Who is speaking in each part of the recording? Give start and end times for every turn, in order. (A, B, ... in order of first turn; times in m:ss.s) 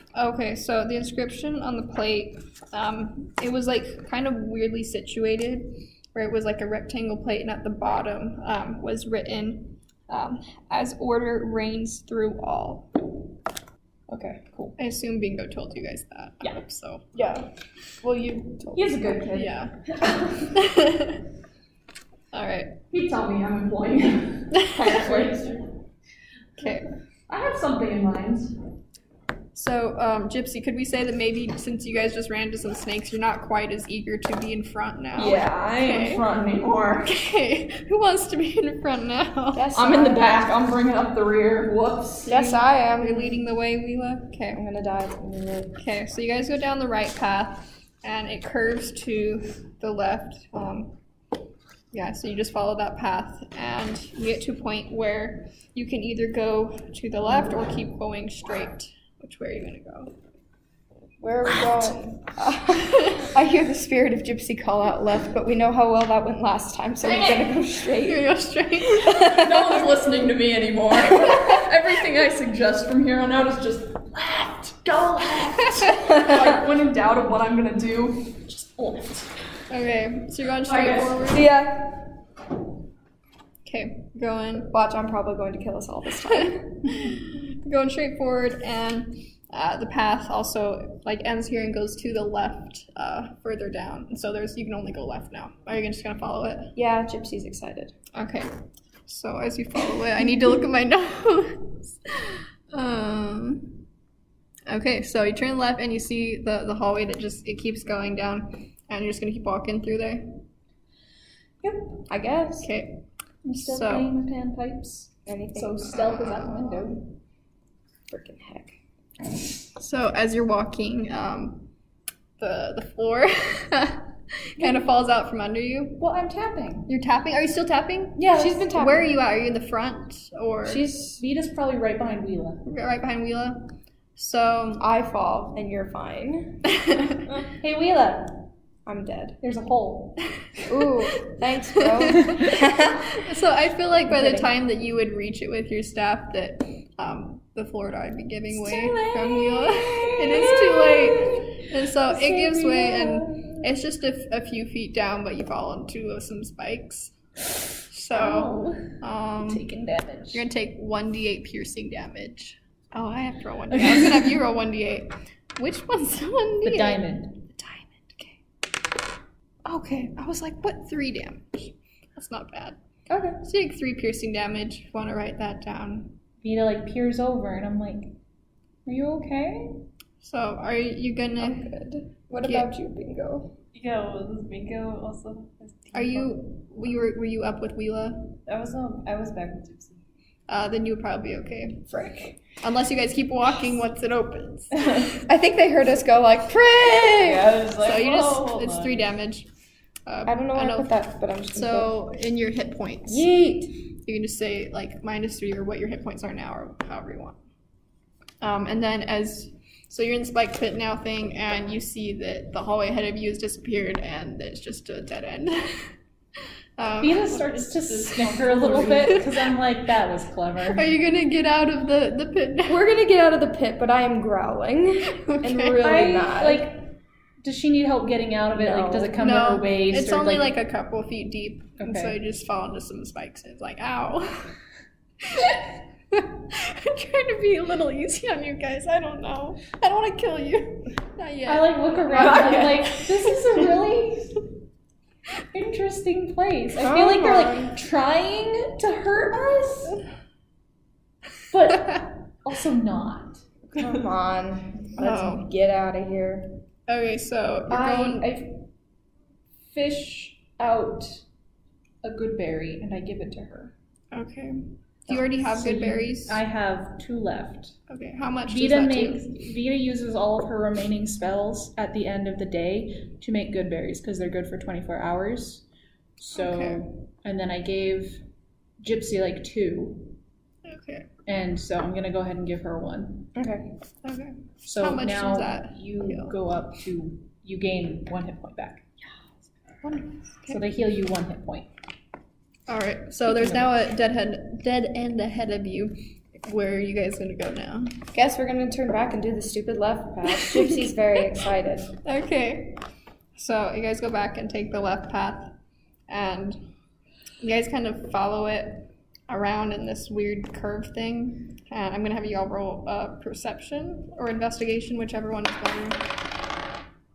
0:00.1-0:13.0 A
0:14.1-0:14.8 B
0:14.8-0:17.5 A
0:18.0-0:19.9 A
0:18.7-0:20.5 B
0:19.2-0:19.4 C
0:20.4-0:21.2 A
0:22.3-0:22.8 A
0:22.9-0:25.7 B
0:24.6-0:25.3 A
0:26.6-0:26.9 A
0:27.3-0:28.5 B
0:29.5-0:36.2 A
0:35.1-0:37.3 B
0:37.0-0:39.6 A
0:39.5-0:40.6 D
0:39.7-0:42.3 B
0:42.2-0:44.6 A
0:42.3-0:43.4 D
0:44.5-0:45.8 D
0:45.8-0:50.9 A
0:51.9-1:00.1 A
1:01.2-1:08.3 D
1:02.7-1:03.3 A
1:07.2-1:07.4 B
1:07.9-1:10.0 A
1:08.9-1:09.8 D
1:09.2-1:19.3 B
1:11.2-1:11.6 A
1:19.7-1:21.5 A
1:20.6-1:21.2 B
1:21.2-1:22.1 D
1:23.6-1:24.7 A
1:24.7-1:26.9 D
1:26.2-1:36.7 A
1:36.7-1:37.9 D
1:38.1-1:38.5 A
1:39.1-1:43.8 A
1:44.7-1:50.4 A
1:52.1-1:52.7 D
1:52.6-1:53.0 A
1:53.4-1:57.0 C
1:53.5-1:54.1 A
1:55.2-1:57.0 D
1:58.1-1:58.8 D
1:59.7-2:01.7 A
2:02.4-2:06.0 A
2:06.0-2:06.9 C
2:06.9-2:10.8 A
2:08.2-2:08.7 C
2:08.3-2:09.2 D
2:10.6-2:11.2 D
2:11.2-2:12.6 C
2:12.6-2:14.8 A
2:14.8-2:16.7 D
2:16.7-2:17.3 A
2:17.6-2:18.5 C
2:18.8-2:19.4 D
2:19.4-2:20.2 C
2:20.7-2:23.2 D
2:21.8-2:37.1 A
2:24.0-2:24.6 C
2:28.5-2:33.7 C
2:37.9-2:39.6 A
2:38.1-2:40.4 C
2:40.3-2:48.4 A
2:43.7-2:44.3 C
2:46.6-2:47.4 C
2:49.6-2:52.8 A
2:53.1-2:53.4 D
2:53.4-2:56.2 A
2:56.4-2:58.2 C
2:58.8-2:59.8 C
3:00.2-3:01.7 A
3:01.4-3:03.5 D
3:02.4-3:02.7 A
3:03.7-3:06.4 E
3:05.9-3:08.3 A
3:08.4-3:10.0 E
3:10.5-3:15.3 A
3:11.9-3:12.4 D
3:15.2-3:17.2 D
3:16.4-3:19.5 A
3:17.3-3:19.0 E
3:20.0-3:21.0 A
3:20.2-3:21.9 D
3:21.5-3:23.3 A
3:23.1-3:23.7 C
3:23.8-3:27.4 A
3:28.4-3:35.9 A
3:36.8-3:39.5 A
3:37.0-3:40.9 C
3:38.4-3:39.1 E
3:40.6-3:42.8 A
3:42.7-3:46.6 D
3:45.1-3:46.1 A
3:45.8-3:50.6 C
3:48.5-3:49.2 D
3:49.1-3:54.5 A
3:51.8-3:52.2 C
3:55.2-4:03.4 A
4:01.4-4:04.4 C
4:02.1-4:02.9 D
4:05.5-4:10.0 C
4:06.8-4:07.8 D
4:11.5-4:13.5 C
4:13.7-4:16.6 D
4:15.0-4:15.5 A
4:16.9-4:18.3 A
4:17.7-4:18.6 C
4:19.7-4:21.2 C
4:22.0-4:23.7 C
4:24.1-4:26.4 A
4:25.1-4:27.8 C
4:27.9-4:29.3 A
4:28.5-4:35.6 C
4:36.2-4:38.2 C
4:36.3-4:36.8 A
4:38.8-4:40.2 C
4:40.6-4:41.1 A
4:41.2-4:43.3 C
4:43.3-4:43.7 D
4:44.0-4:46.4 A
4:44.6-4:48.8 C
4:49.8-4:50.6 A
4:50.5-4:51.7 C
4:52.7-4:58.0 A
4:53.4-4:53.7 C
4:58.1-5:01.9 D
5:02.0-5:02.8 A
5:03.4-5:05.5 A
5:06.1-5:06.7 A
5:07.4-5:16.0 A